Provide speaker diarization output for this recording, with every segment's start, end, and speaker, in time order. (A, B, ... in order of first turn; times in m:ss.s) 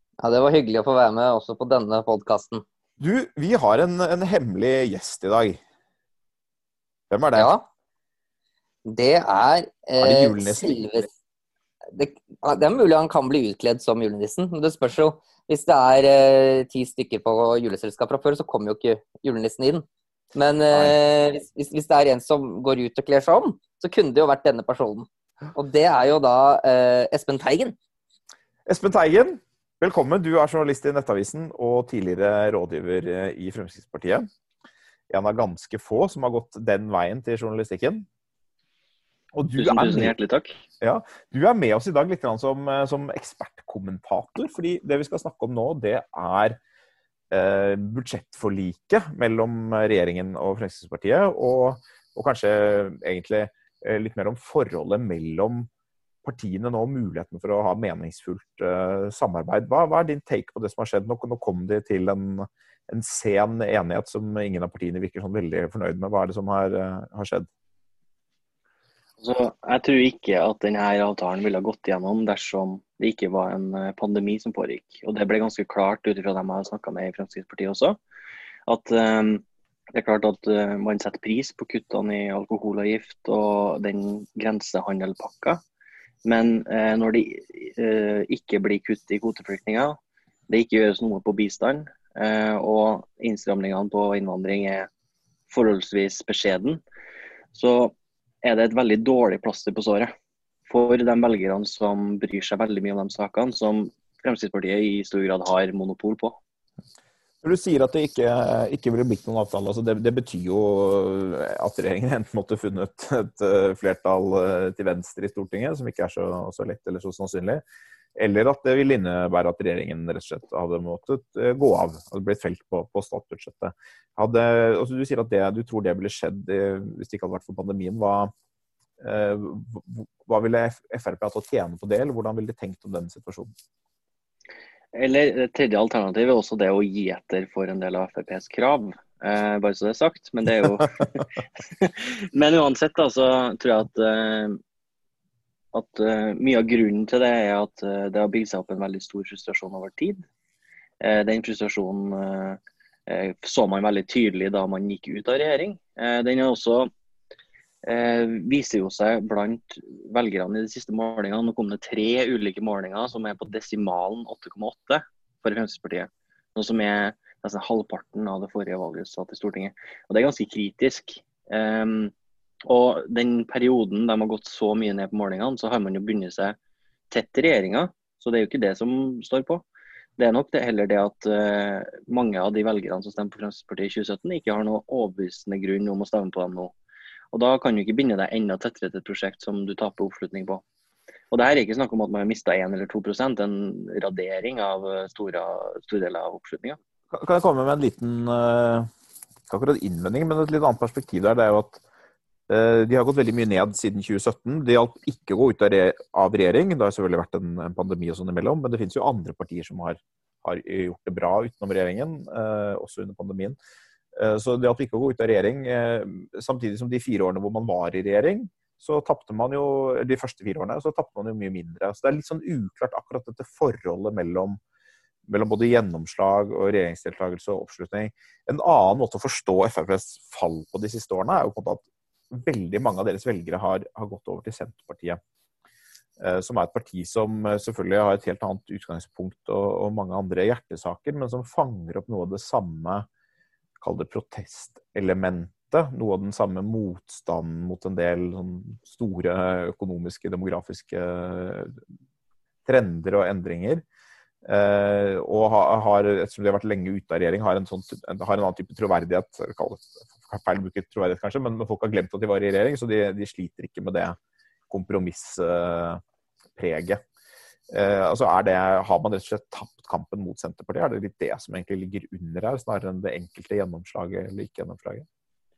0:00.2-0:02.6 A
0:03.0-0:05.6 B
0:07.1-0:07.5 B
0:07.4-0:07.6 A
0:08.8-0:11.1 A
0:10.0-0:10.8 B
0:11.9-0:27.8 A
0:28.6-0:34.3 B
0:35.1-0:38.1 B
0:39.3-0:40.1 B
0:39.6-0:40.6 C
0:40.8-0:46.6 B
0:47.3-0:55.7 B
0:56.2-1:07.5 B
1:09.2-1:18.0 C
1:18.7-1:25.6 C
1:26.2-1:30.0 C
1:30.5-1:34.9 C
1:35.5-1:36.8 C
1:37.5-1:40.1 C
1:40.6-1:46.4 C
1:47.4-1:57.6 B
1:58.2-2:08.3 B
2:09.0-2:13.5 B
2:14.9-2:24.6 C
2:25.7-2:30.2 C
2:31.0-2:36.9 C
2:37.8-2:52.1 C
2:52.7-2:56.6 C
2:57.1-2:59.6 C
3:00.2-3:06.7 C
3:07.3-3:10.6 C
3:11.3-3:16.8 C
3:17.1-3:18.9 B
3:19.5-3:21.8 B
3:22.5-3:33.6 B
3:34.1-3:44.6 B
3:45.3-3:55.2 B
3:56.2-4:03.1 B
4:03.8-4:11.8 B
4:12.6-4:13.8 B
4:14.4-4:24.2 B
4:24.7-4:26.0 B
4:26.6-4:27.0 B
4:27.7-4:35.0 B